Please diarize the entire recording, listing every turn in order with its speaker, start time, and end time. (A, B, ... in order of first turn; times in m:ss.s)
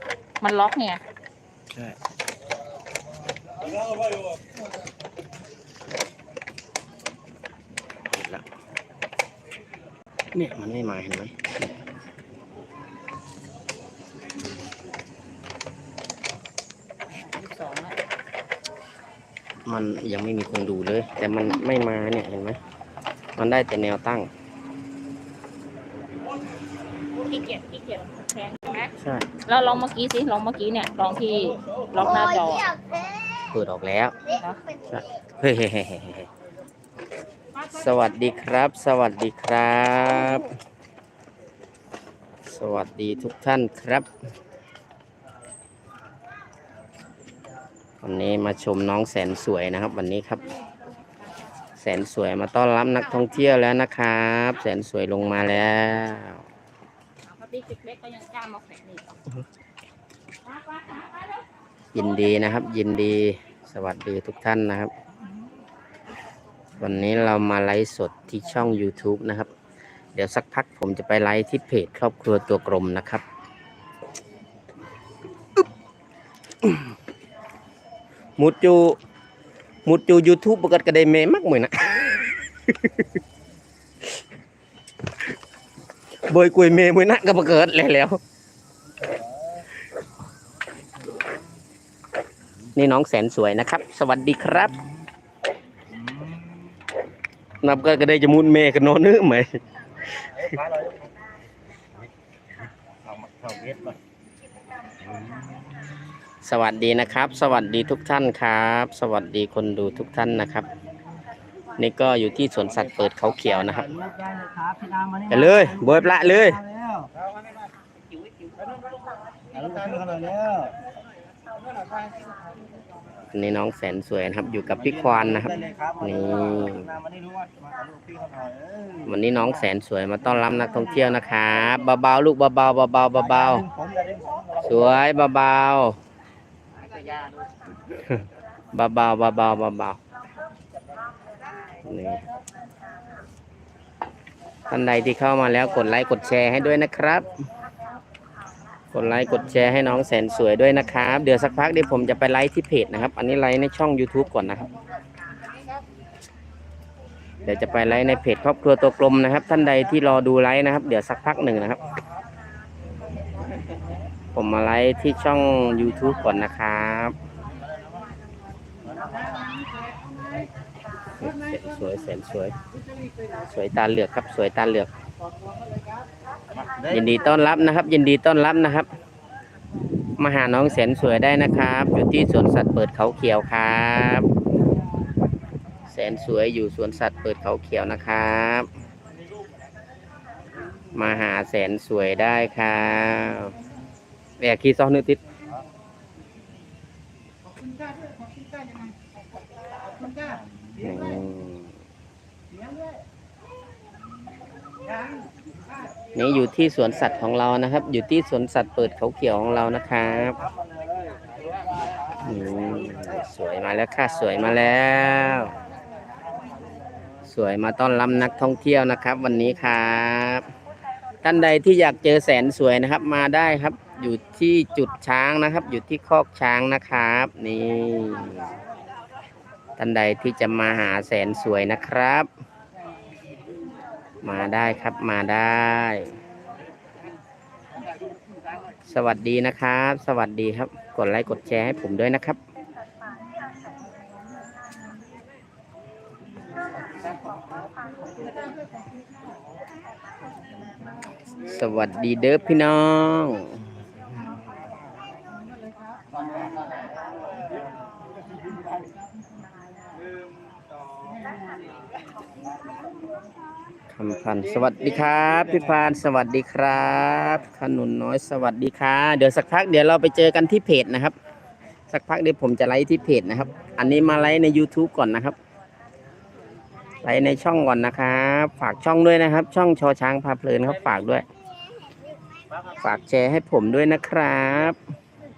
0:00.4-0:01.0 A
0:08.1-0:08.4 B
0:10.3-0:11.7 B
0:17.1-0:18.0 A
0:19.7-0:22.6 B
0:23.4-0:24.3 B
0:27.2-0:32.8 A
0:29.0-0:29.3 B
0:33.5-0:34.2 B
0:34.3-0:34.6 A
0:34.9-0:36.3 B
0:37.7-0:40.5 B
0:42.5-0:44.1 B
0:48.0-0:50.5 B
0:51.8-0:56.4 B
0:57.2-0:59.2 A
1:01.9-1:04.9 B
1:06.8-1:09.5 B
1:10.2-1:13.2 B
1:18.4-1:19.0 B
1:19.8-1:22.3 B
1:26.3-1:28.2 B
1:32.7-1:34.8 B
1:37.6-1:39.6 B
1:46.4-1:50.7 B
1:51.8-1:54.1 B
1:54.2-1:55.2 C
1:55.2-1:56.6 B
1:59.7-2:00.7 C
2:03.3-2:07.0 B
2:07.1-2:08.9 C
2:09.0-2:13.7 B
2:14.0-2:14.3 C
2:14.6-2:16.0 B
2:18.7-2:20.0 B
2:21.8-2:22.2 B
2:24.7-2:27.3 B
2:28.9-2:34.7 B
2:37.4-2:41.8 B
2:44.4-2:47.2 B
2:51.2-2:52.6 B
2:53.4-2:54.9 B
2:56.8-2:58.9 B
3:00.2-3:04.3 B
3:05.9-3:08.7 B
3:10.9-3:13.6 B
3:14.4-3:15.2 B
3:20.8-3:21.7 B
3:26.2-3:30.4 B
3:32.2-3:35.6 B
3:37.3-3:40.4 B
3:41.2-3:48.6 B
3:49.8-3:52.3 B
3:54.2-3:56.1 B
3:58.9-4:02.4 B
4:11.4-4:13.6 B
4:23.9-4:31.2 B
4:31.9-4:35.4 B
4:37.0-4:41.2 B
4:42.8-4:44.8 B